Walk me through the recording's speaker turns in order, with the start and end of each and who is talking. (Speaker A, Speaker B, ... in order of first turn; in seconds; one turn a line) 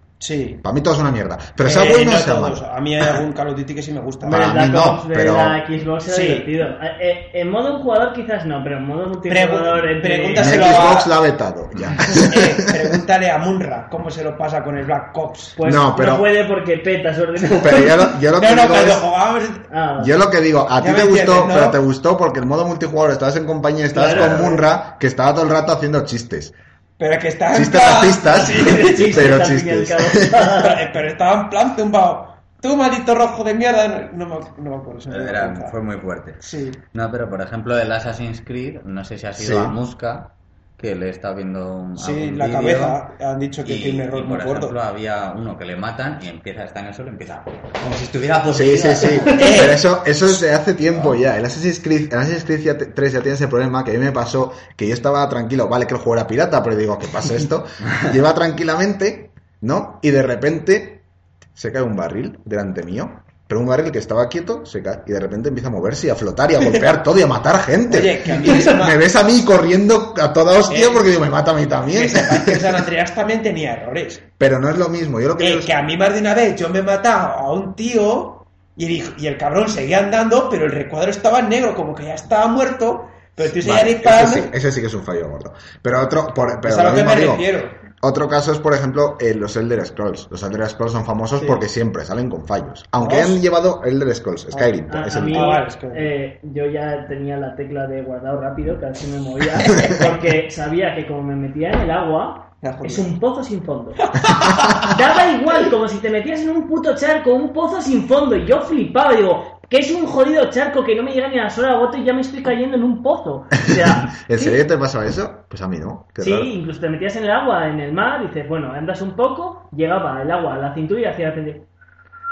Speaker A: 0.2-0.6
Speaker B: 0.6-2.6
Speaker A: 1.6-4.5
Speaker B: 4.2-5.6
Speaker C: 4.2-11.0
Speaker A: 6.0-6.5
Speaker A: 9.3-11.2
Speaker B: 10.3-12.8
Speaker A: 12.1-15.6
Speaker C: 15.6-18.1
Speaker B: 15.6-16.3
Speaker B: 17.5-19.0
Speaker A: 18.3-19.7
Speaker C: 19.7-20.1
Speaker B: 20.0-26.5
Speaker A: 20.8-21.8
Speaker C: 23.9-24.6
Speaker A: 27.0-29.3
Speaker B: 27.5-30.5
Speaker C: 28.4-30.8
Speaker A: 30.5-35.8
Speaker D: 35.1-36.4
Speaker A: 36.4-36.8
Speaker D: 36.9-43.0
Speaker B: 39.4-39.8
Speaker A: 42.0-44.8
Speaker D: 43.6-49.4
Speaker B: 48.5-61.0
Speaker A: 49.2-49.8
Speaker B: 61.5-72.8
Speaker A: 67.9-69.0
Speaker A: 70.7-71.1
Speaker A: 71.9-74.2
Speaker B: 74.4-75.8
Speaker A: 75.4-84.5
Speaker B: 83.4-87.5
Speaker A: 86.7-87.7
Speaker B: 88.0-95.5
Speaker A: 91.3-91.6
Speaker A: 93.0-93.4
Speaker C: 94.9-114.6
Speaker A: 95.3-96.1
Speaker A: 102.6-103.1
Speaker A: 104.0-104.9
Speaker B: 113.8-116.5
Speaker C: 116.2-121.7